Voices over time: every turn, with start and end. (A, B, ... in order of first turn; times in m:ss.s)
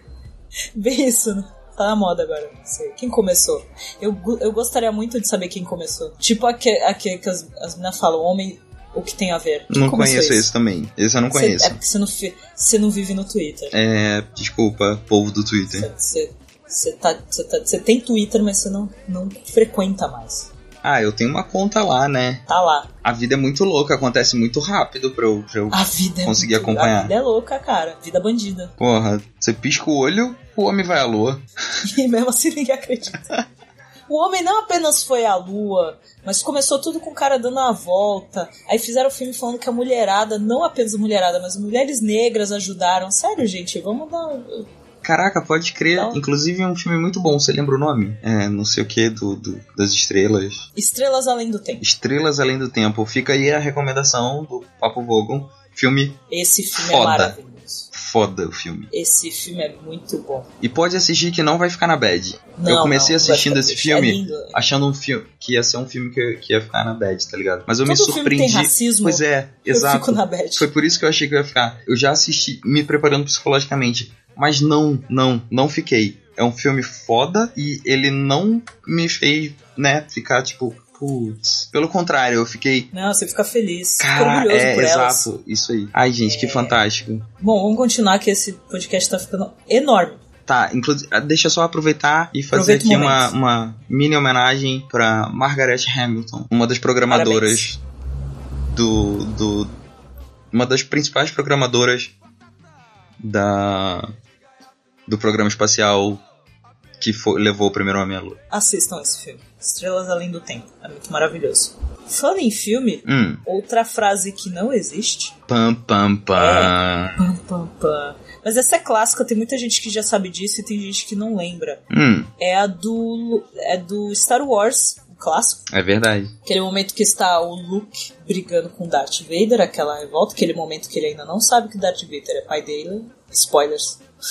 0:00.7-0:10.4 A
0:09.7-0:11.8 B
0:11.3-0:13.8 A
0:13.7-0:15.9 B
0:15.7-0:20.5 A
0:20.8-0:22.4 B
0:22.5-0:22.9 A
0:23.0-0:27.1 B
0:25.7-0:28.7 A
0:28.8-0:31.4 B
0:31.8-0:33.3 A
0:34.1-0:44.6 A
0:45.0-0:50.6 B
0:45.9-0:46.2 A
0:50.8-0:51.8 A
0:51.8-0:56.2 B
0:56.3-0:57.9 A
0:56.7-0:57.3 B
0:57.9-0:58.9 B
0:58.9-1:00.5 A
1:00.6-1:22.9 B
1:02.6-1:04.6 A
1:07.8-1:10.7 A
1:22.9-1:25.3 A
1:24.0-1:27.2 B
1:26.2-1:26.8 A
1:27.4-1:30.2 A
1:30.4-1:37.8 B
1:32.5-1:33.3 A
1:37.1-1:37.6 A
1:38.7-1:39.7 B
1:40.5-1:42.1 B
1:43.2-1:44.1 B
1:45.1-1:46.2 B
1:47.0-1:48.4 B
1:48.5-1:55.3 A
1:53.0-1:53.4 B
1:55.5-1:57.2 B
1:56.3-2:01.8 A
2:01.9-2:02.3 B
2:02.4-2:05.6 A
2:05.7-2:06.3 B
2:06.4-2:14.0 A